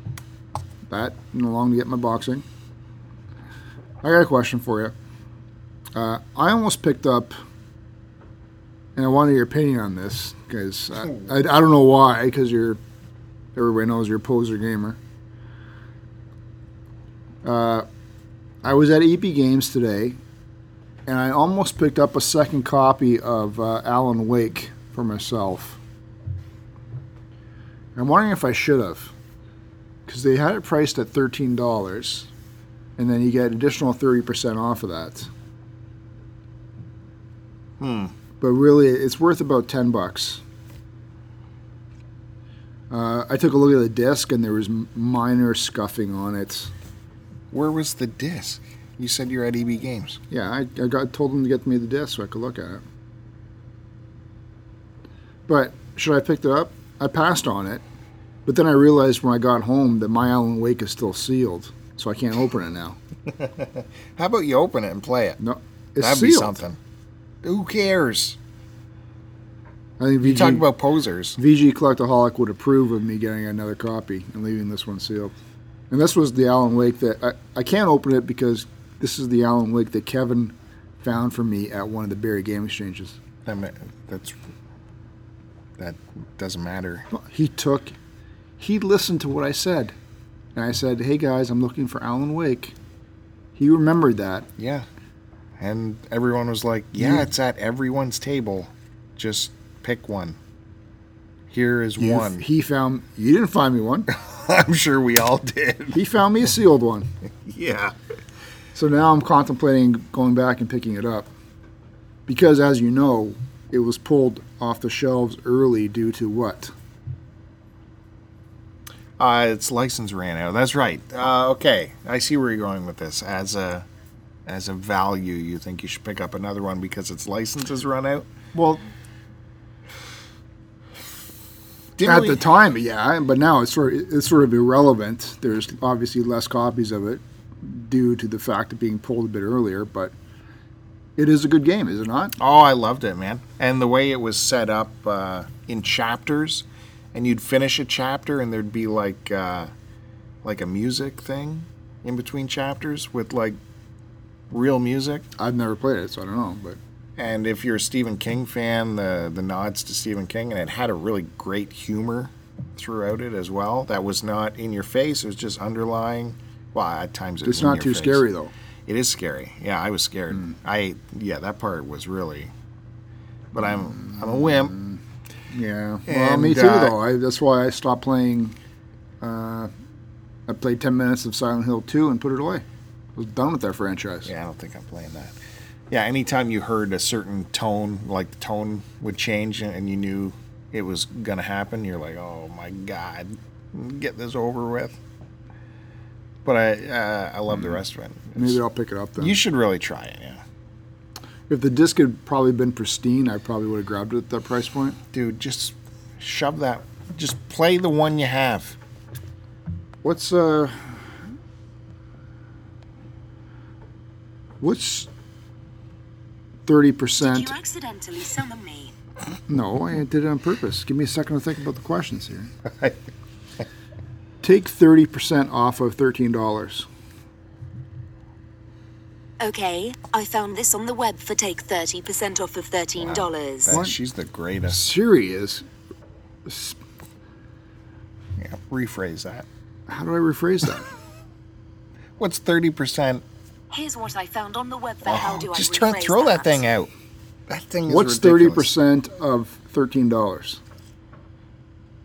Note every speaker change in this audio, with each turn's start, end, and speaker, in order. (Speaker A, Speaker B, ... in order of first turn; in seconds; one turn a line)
Speaker A: 0.9-2.4
Speaker A: 4.0-4.9
Speaker A: 5.9-7.4
Speaker A: 8.9-12.8
Speaker A: 13.6-15.0
Speaker A: 17.4-17.9
Speaker A: 18.6-20.2
Speaker A: 21.1-25.8
Speaker A: 27.9-29.1
Speaker A: 30.1-32.3
Speaker A: 33.0-35.3
Speaker B: 37.8-38.1
Speaker A: 38.4-40.4
Speaker A: 42.9-46.7
Speaker B: 47.5-50.2
Speaker A: 50.3-52.8
Speaker A: 55.5-57.8
Speaker A: 58.5-63.0
Speaker B: 63.3-65.4
Speaker A: 65.4-66.6
Speaker B: 66.0-66.8
Speaker B: 67.4-68.4
Speaker A: 70.0-70.7
Speaker B: 70.2-71.4
Speaker A: 71.4-75.3
Speaker A: 75.9-83.2
Speaker B: 83.4-84.3
Speaker B: 85.8-87.1
Speaker A: 87.1-87.9
Speaker A: 88.6-89.9
Speaker A: 90.5-92.7
Speaker A: 93.5-94.5
Speaker B: 94.6-94.8
Speaker B: 95.6-100.4
Speaker A: 97.0-97.2
Speaker B: 101.5-102.4
Speaker A: 102.0-104.1
Speaker B: 104.1-106.0
Speaker A: 105.9-107.1
Speaker B: 107.4-107.9
Speaker A: 108.7-111.3
Speaker A: 112.3-116.7
Speaker B: 119.2-123.9
Speaker B: 124.5-128.3
Speaker A: 128.5-128.8
Speaker B: 132.0-132.4
Speaker A: 132.0-140.1
Speaker A: 141.2-142.3
Speaker B: 142.4-149.7
Speaker B: 150.4-153.6
Speaker B: 154.5-155.2
Speaker A: 155.4-156.8
Speaker B: 157.2-168.2
Speaker A: 167.4-168.5
Speaker B: 168.9-172.5
Speaker B: 173.5-174.8
Speaker A: 173.9-175.0
Speaker A: 175.5-178.6
Speaker B: 176.1-176.9
Speaker A: 179.2-179.7
Speaker A: 180.5-182.6
Speaker A: 183.2-184.3
Speaker B: 184.2-185.3
Speaker B: 185.9-195.0
Speaker B: 196.4-198.6
Speaker A: 198.3-199.3
Speaker B: 199.2-200.4
Speaker A: 201.5-205.0
Speaker B: 205.1-208.8
Speaker A: 210.0-210.9
Speaker A: 214.6-215.1
Speaker A: 216.7-217.5
Speaker C: 217.2-218.9
Speaker A: 219.5-222.5
Speaker B: 222.7-223.0
Speaker A: 224.4-226.9
Speaker C: 229.4-233.8
Speaker B: 233.0-234.9
Speaker A: 233.7-233.9
Speaker A: 234.7-235.6
Speaker A: 236.4-236.8
Speaker B: 238.4-239.5
Speaker A: 239.9-240.9
Speaker B: 242.2-243.2
Speaker C: 243.7-246.6
Speaker B: 245.0-246.9
Speaker B: 247.5-248.7
Speaker A: 247.9-250.6